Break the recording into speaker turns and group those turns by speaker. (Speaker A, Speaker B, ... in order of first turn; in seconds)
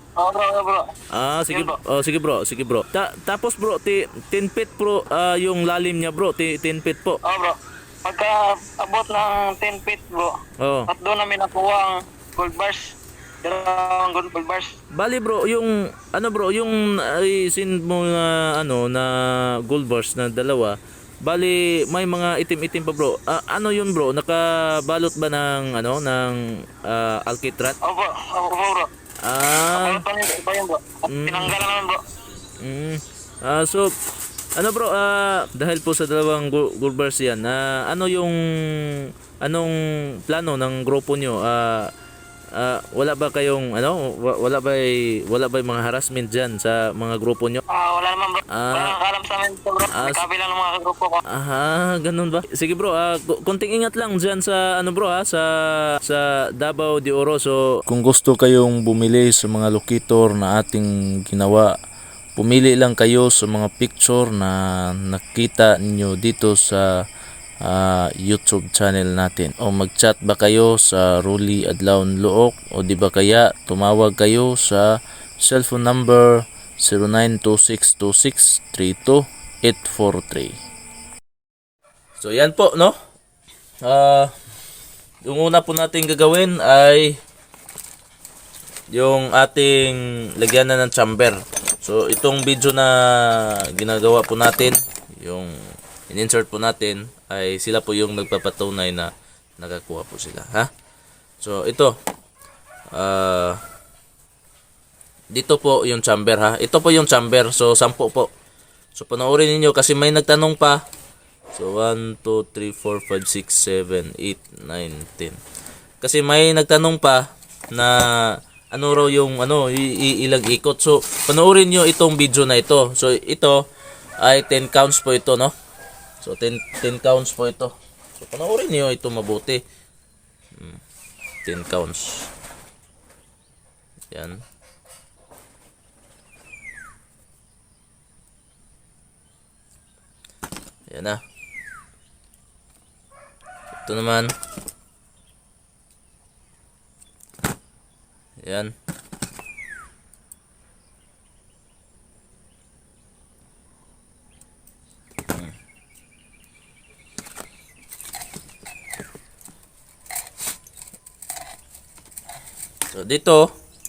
Speaker A: 0.2-0.9, 1.5-1.8, 7.2-14.8, 27.8-28.9, 29.7-32.0, 47.7-51.2
Speaker B: 1.1-7.2, 10.6-10.9, 14.9-27.8, 29.2-30.0, 31.1-31.6, 32.6-33.9, 34.6-41.9, 42.5-47.6, 48.5-49.0, 49.9-50.2, 51.3-61.7, 62.4-67.0, 67.6-80.6, 82.2-83.0, 83.8-84.3, 85.2-87.2, 88.9-95.6, 96.1-100.7, 101.4-102.0, 102.9-103.6, 105.3-108.3, 109.0-110.8, 111.5-115.4, 116.0-123.7, 124.2-125.5, 126.2-129.6, 131.4-132.3, 134.1-134.4, 140.9-141.2, 143.8-144.3, 148.4-148.8, 162.9-163.5